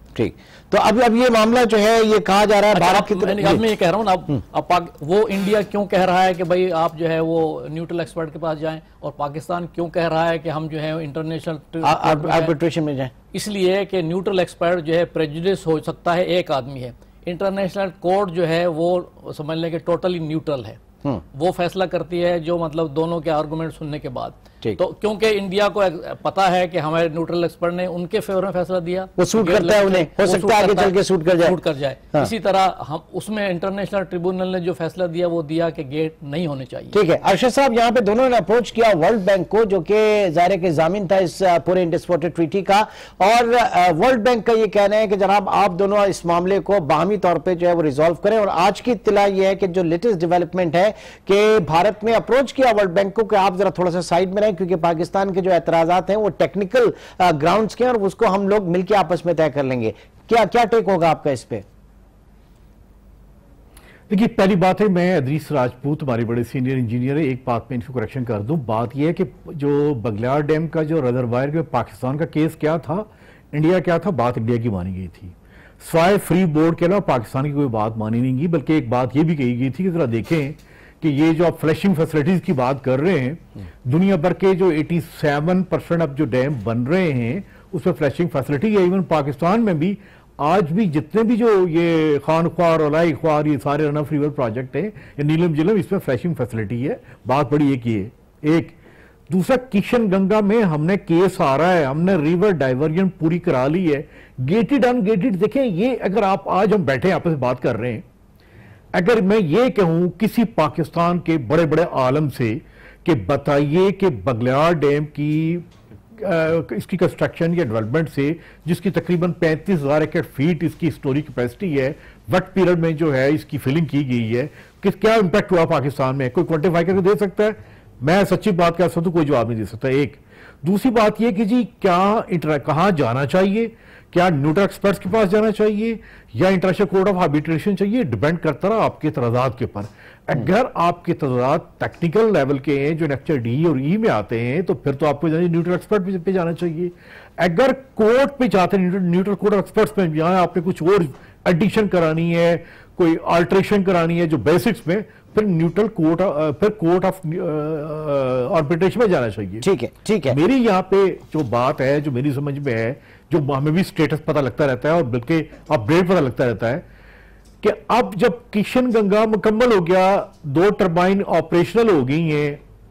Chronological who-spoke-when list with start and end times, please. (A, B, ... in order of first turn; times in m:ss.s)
0:00.2-0:03.6 A
0:02.7-0:12.5 B
0:11.8-0:13.1 A
0:13.3-0:20.8 B
0:21.3-0:37.0 B
0:29.2-0:31.6 A
0:36.9-1:01.6 A
1:04.1-1:38.8 C
1:39.3-1:48.0 C
1:48.9-2:39.6 C
2:39.6-2:40.4 A
2:40.3-2:46.8 C
2:47.6-2:52.6 C